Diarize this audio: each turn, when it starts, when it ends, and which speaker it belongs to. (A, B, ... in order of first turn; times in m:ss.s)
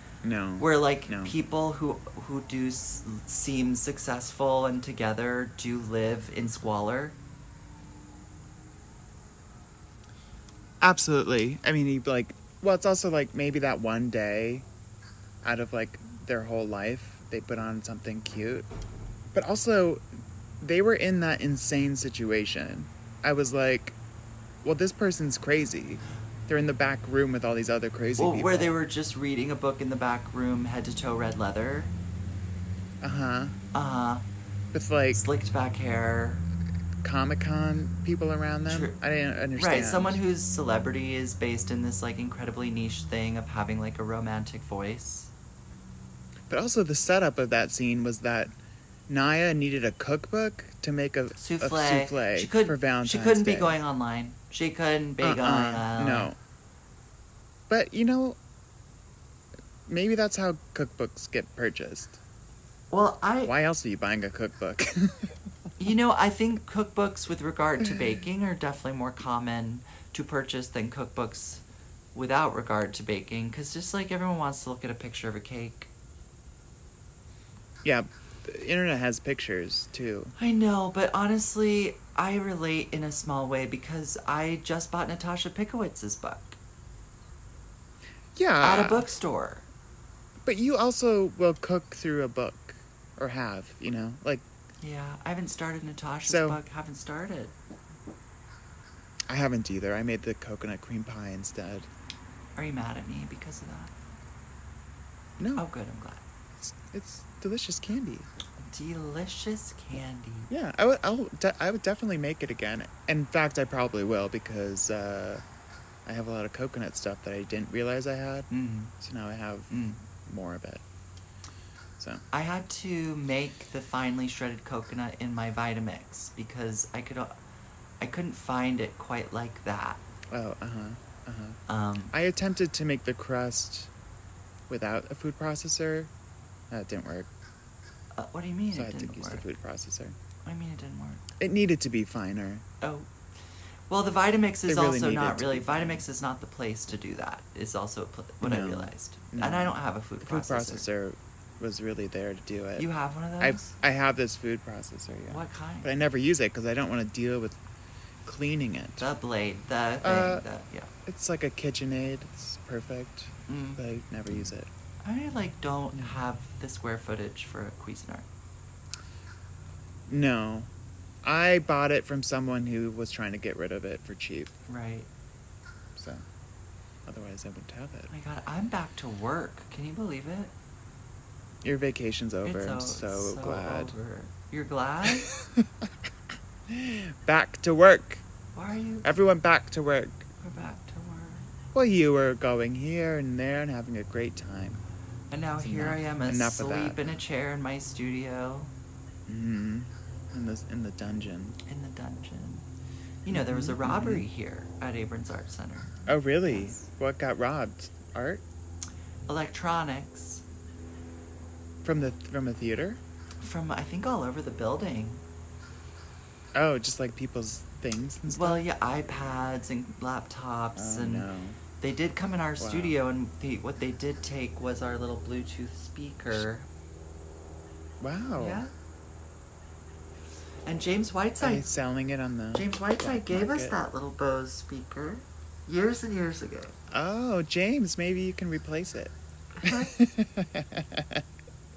0:00.2-0:01.4 A
0:00.6-0:07.2 B
0:10.8-0:14.7 A
0:15.4-0:18.7 A
0:19.3-0:20.0 A
0:20.6-0:24.0 A
0:24.6-0:28.8 A
0:28.2-0:31.9 B
0:33.0-0:33.6 A
0:33.7-0:34.2 B
0:34.7-0:35.2 A
0:35.1-0:36.4 B
0:37.0-0:40.2 A
0:38.7-0:39.0 B
0:39.6-0:45.3 B
0:46.5-0:48.5 A
0:49.1-0:53.8 A
0:51.4-0:56.3 B
0:55.2-0:56.4 A
0:57.7-0:58.4 A
0:59.9-1:02.2 A
1:02.9-1:03.6 B
1:03.4-1:05.4 A
1:05.8-1:11.6 B
1:07.8-1:08.2 A
1:12.1-1:15.9 B
1:17.8-1:20.3 A
1:20.4-1:26.6 B
1:28.4-1:29.1 A
1:28.6-1:29.7 B
1:30.4-1:34.4 A
1:34.8-1:37.5 B
1:36.3-1:36.6 A
1:39.3-1:41.9 A
1:42.6-1:43.9 B
1:45.4-1:45.6 A
1:45.6-1:46.2 B
1:46.6-1:48.3 A
1:48.6-1:50.5 B
1:50.5-1:55.4 A
1:56.1-1:58.5 A
1:58.5-1:58.9 B
1:59.0-2:00.8 A
1:59.7-2:00.0 B
2:02.3-2:07.3 B
2:08.0-2:10.0 B
2:10.3-2:11.6 A
2:11.7-2:12.1 B
2:12.1-2:13.9 A
2:14.7-2:16.1 A
2:16.7-2:17.3 A
2:18.2-2:19.5 B
2:18.7-2:20.2 A
2:20.5-2:21.2 B
2:21.4-2:22.6 A
2:22.8-2:23.1 B
2:23.9-2:30.9 B
2:24.7-2:26.0 A
2:28.4-2:32.9 A
2:32.8-2:33.7 B
2:33.4-2:37.6 A
2:35.3-2:35.9 B
2:38.2-2:39.1 A
2:39.0-2:40.9 B
2:40.0-2:40.4 A
2:41.1-2:44.7 A
2:43.5-2:43.8 B
2:45.0-2:48.3 B
2:50.1-2:50.7 A
2:51.2-2:54.5 A
2:54.7-2:55.1 B
2:56.0-2:56.2 A
2:57.1-2:58.1 A
2:58.1-3:00.5 B
3:01.6-3:04.0 A
3:02.4-3:05.3 B
3:05.1-3:05.9 A
3:06.7-3:08.2 A
3:08.6-3:09.1 B
3:09.0-3:10.3 A
3:10.4-3:11.5 B
3:11.7-3:14.8 A
3:15.3-3:18.7 B
3:15.6-3:17.0 A
3:19.3-3:21.6 A
3:21.7-3:22.7 B
3:23.2-3:26.8 B
3:23.3-3:24.3 A
3:26.1-3:28.4 A
3:29.3-3:30.4 B
3:31.8-3:33.0 A
3:33.4-3:35.2 B
3:36.6-3:38.6 A
3:38.3-3:41.3 B
3:40.8-3:41.6 A
3:41.8-3:46.7 B
3:42.6-3:43.0 A
3:48.0-3:48.6 A
3:48.4-3:48.7 B
3:50.6-3:51.7 B
3:51.4-3:53.8 A
3:52.5-3:56.8 B
3:56.9-4:01.2 A
3:59.6-3:59.9 B